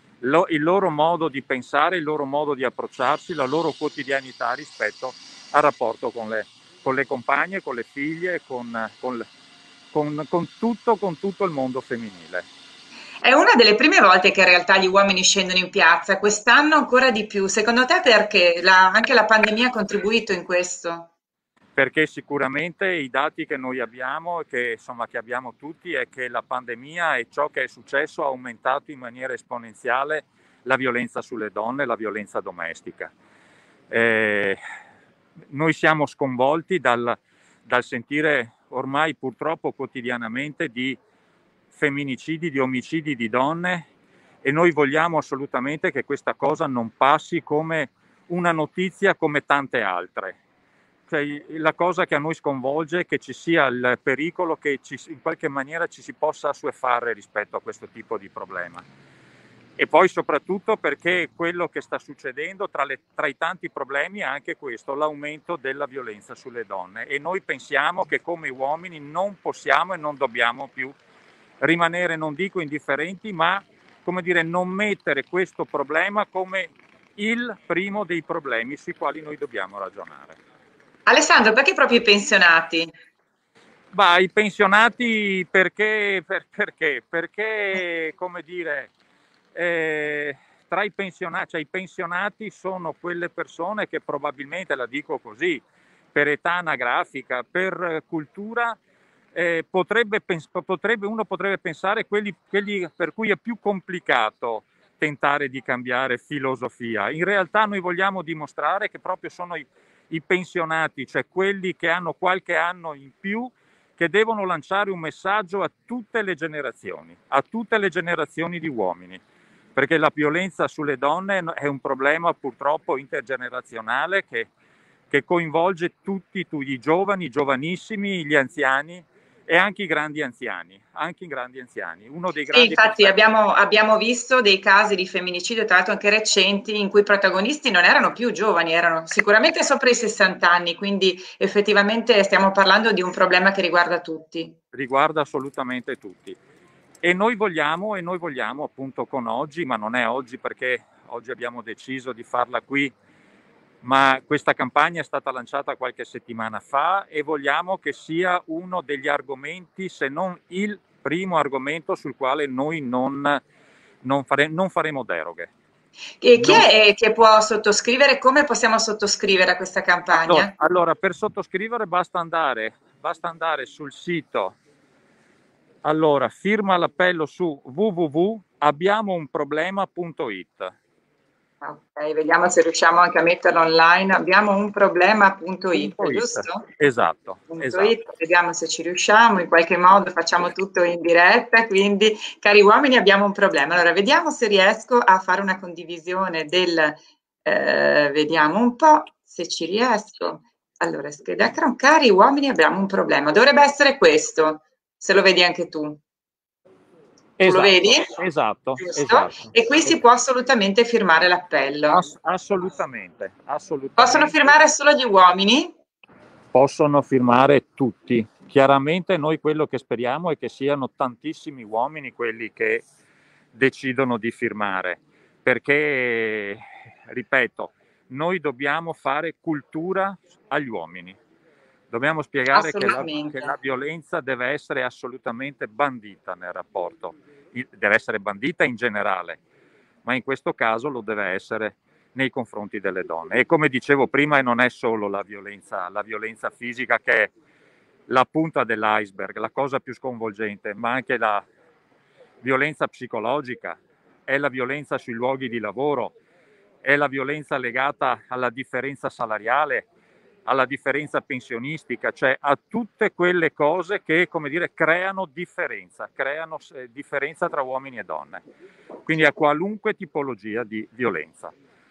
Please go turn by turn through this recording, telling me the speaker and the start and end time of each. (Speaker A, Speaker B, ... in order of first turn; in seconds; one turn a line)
Speaker A: 0.2-9.2
Speaker A: 9.9-12.5
Speaker B: 13.2-21.1
Speaker A: 21.8-33.1
Speaker A: 33.9-34.6
Speaker A: 35.5-41.0
Speaker A: 41.7-43.9
Speaker A: 44.4-50.4
Speaker A: 51.1-58.8
Speaker A: 59.8-71.0
Speaker A: 71.6-80.4
Speaker B: 81.1-82.9
Speaker A: 83.9-88.9
Speaker A: 89.5-95.6
Speaker A: 96.1-98.8
Speaker A: 99.3-119.2
Speaker A: 119.8-124.5
Speaker A: 125.1-133.2
Speaker B: 132.5-144.5
Speaker A: 144.7-146.4
Speaker A: 147.0-152.9
Speaker A: 153.8-163.4
Speaker A: 164.0-165.5
Speaker B: 166.2-170.5
Speaker A: 166.3-166.7
Speaker A: 170.1-174.6
Speaker A: 175.8-180.7
Speaker B: 181.6-186.7
Speaker A: 185.7-187.9
Speaker B: 187.5-206.0
Speaker A: 207.4-210.0
Speaker B: 207.4-208.1
Speaker B: 208.8-212.0
Speaker A: 211.9-214.6
Speaker B: 214.0-215.7
Speaker A: 216.5-222.8
Speaker A: 223.5-231.2
Speaker A: 231.9-239.4
Speaker B: 232.5-233.6
Speaker A: 240.1-247.3
Speaker A: 248.1-251.4
Speaker A: 252.4-256.1
Speaker A: 256.8-259.9
Speaker A: 260.4-268.4
Speaker A: 269.1-271.5